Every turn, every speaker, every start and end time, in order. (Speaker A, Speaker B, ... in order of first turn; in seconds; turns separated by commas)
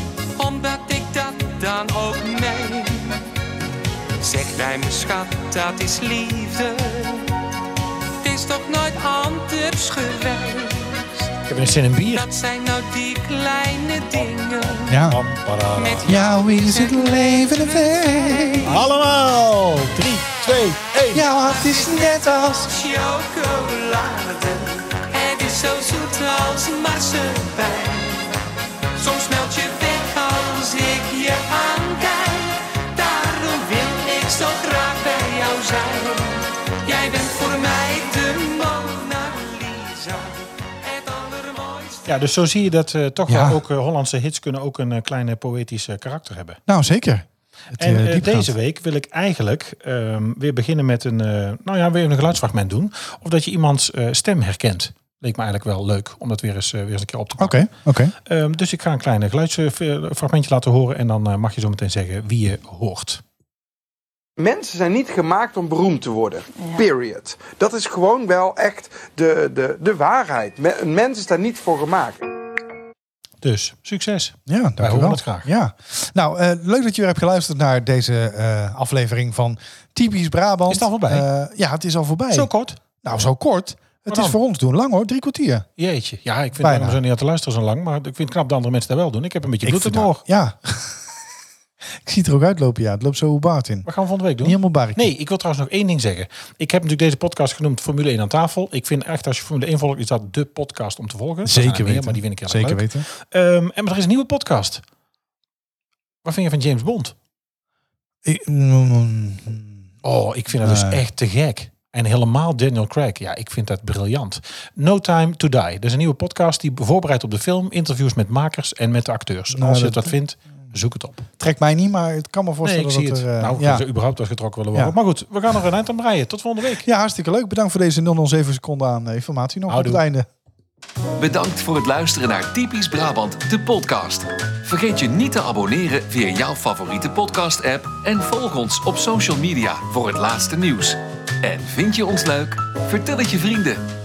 Speaker A: 0.3-3.2, Speaker A: 4.2-7.3, Speaker A: 8.2-11.3, Speaker B: 11.5-12.2, Speaker A: 12.1-15.1, Speaker C: 14.9-15.2, Speaker B: 15.1-16.2, Speaker A: 15.8-18.7, Speaker C: 16.1-18.8, Speaker B: 18.6-21.2, Speaker C: 21.1-22.7, Speaker A: 21.6-28.3, Speaker A: 28.9-42.1, Speaker B: 42.0-46.6, Speaker C: 43.3-43.6, Speaker C: 46.7-48.5, Speaker B: 47.8-63.2, Speaker C: 57.4-58.1, Speaker D: 64.4-72.2, Speaker B: 73.4-75.5, Speaker C: 74.5-85.7, Speaker B: 80.7-81.3, Speaker B: 82.3-82.8, Speaker B: 84.1-84.4, Speaker B: 85.8-90.2, Speaker C: 86.6-87.0, Speaker C: 89.6-91.1, Speaker C: 92.0-93.9, Speaker B: 93.8-104.8, Speaker C: 94.4-95.1, Speaker C: 101.4-103.0, Speaker B: 106.2-107.1, Speaker C: 108.2-109.8, Speaker B: 110.0-121.2, Speaker C: 110.6-111.0, Speaker C: 119.5-120.1, Speaker C: 121.4-123.8, Speaker B: 122.6-126.9, Speaker C: 126.8-130.3, Speaker B: 129.7-130.0, Speaker E: 131.2-143.8